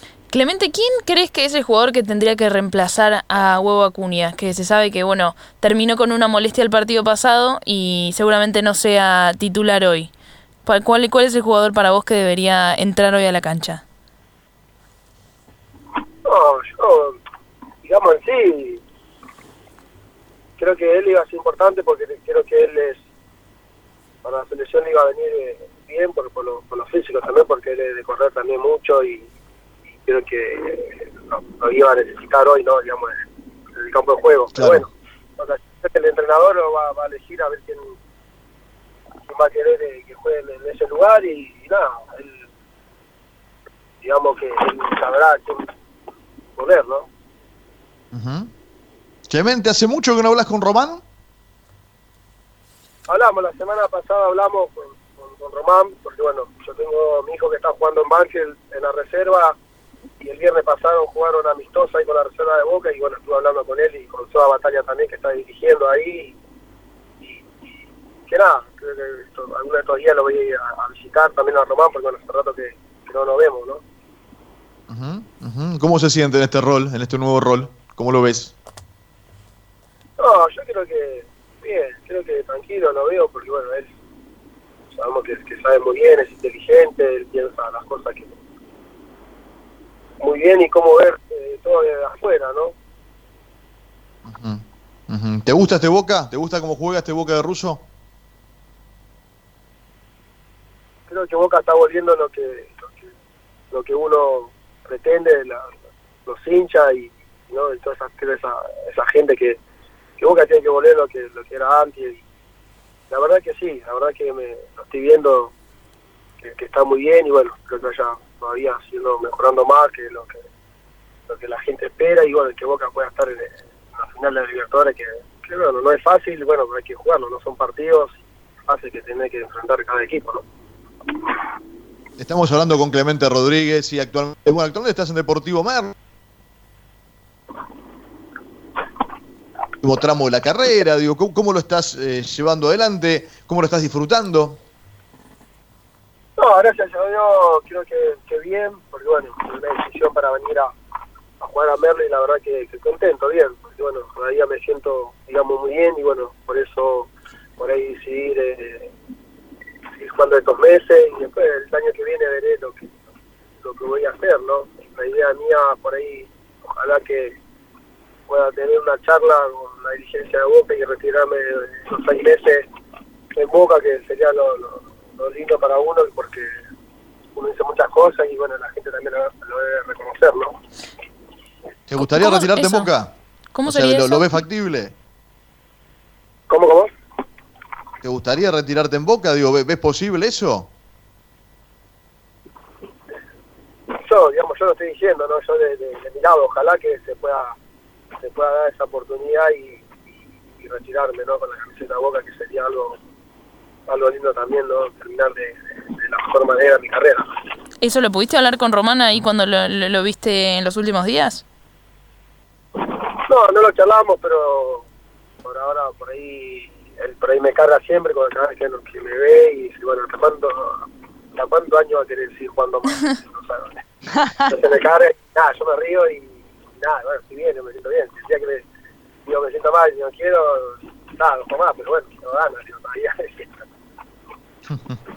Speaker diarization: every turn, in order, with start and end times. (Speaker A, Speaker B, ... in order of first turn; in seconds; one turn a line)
Speaker A: 0.3-10.1
Speaker A: 10.6-13.8
Speaker B: 16.2-17.2
Speaker B: 17.8-18.8
Speaker B: 20.6-23.0
Speaker B: 24.2-29.2
Speaker B: 30.0-33.2
Speaker B: 33.7-37.9
Speaker C: 34.5-34.9
Speaker B: 39.2-42.4
Speaker B: 44.0-45.6
Speaker B: 46.5-47.1
Speaker C: 48.1-48.5
Speaker C: 49.3-51.0
Speaker B: 53.1-59.6
Speaker B: 60.2-66.3
Speaker B: 67.2-67.5
Speaker B: 68.3-73.8
Speaker C: 74.9-78.5
Speaker B: 80.2-83.9
Speaker B: 84.9-88.3
Speaker B: 90.2-92.7
Speaker C: 94.2-97.8
Speaker B: 101.1-103.1
Speaker B: 103.7-105.7
Speaker B: 106.2-109.6
Speaker B: 110.2-112.2
Speaker B: 113.1-115.5
Speaker B: 116.4-120.4
Speaker B: 121.3-130.4
Speaker C: 132.2-135.9
Speaker C: 139.8-144.6
Speaker B: 146.4-150.7
Speaker B: 151.4-158.9
Speaker B: 160.0-162.9
Speaker B: 163.6-167.3
Speaker B: 168.3-172.6
Speaker B: 173.3-176.5
Speaker B: 177.3-180.6
Speaker C: 181.9-184.9
Speaker A: 182.0-182.9
Speaker A: 183.5-184.4
Speaker B: 186.5-186.9
Speaker C: 188.0-190.7
Speaker B: 193.9-197.5
Speaker B: 198.2-199.8
Speaker B: 200.6-203.0
Speaker B: 203.9-207.3
Speaker A: 207.8-211.4
Speaker B: 212.8-214.8
Speaker B: 215.4-220.8
Speaker B: 221.3-223.8
Speaker B: 224.5-228.6
Speaker B: 229.2-233.6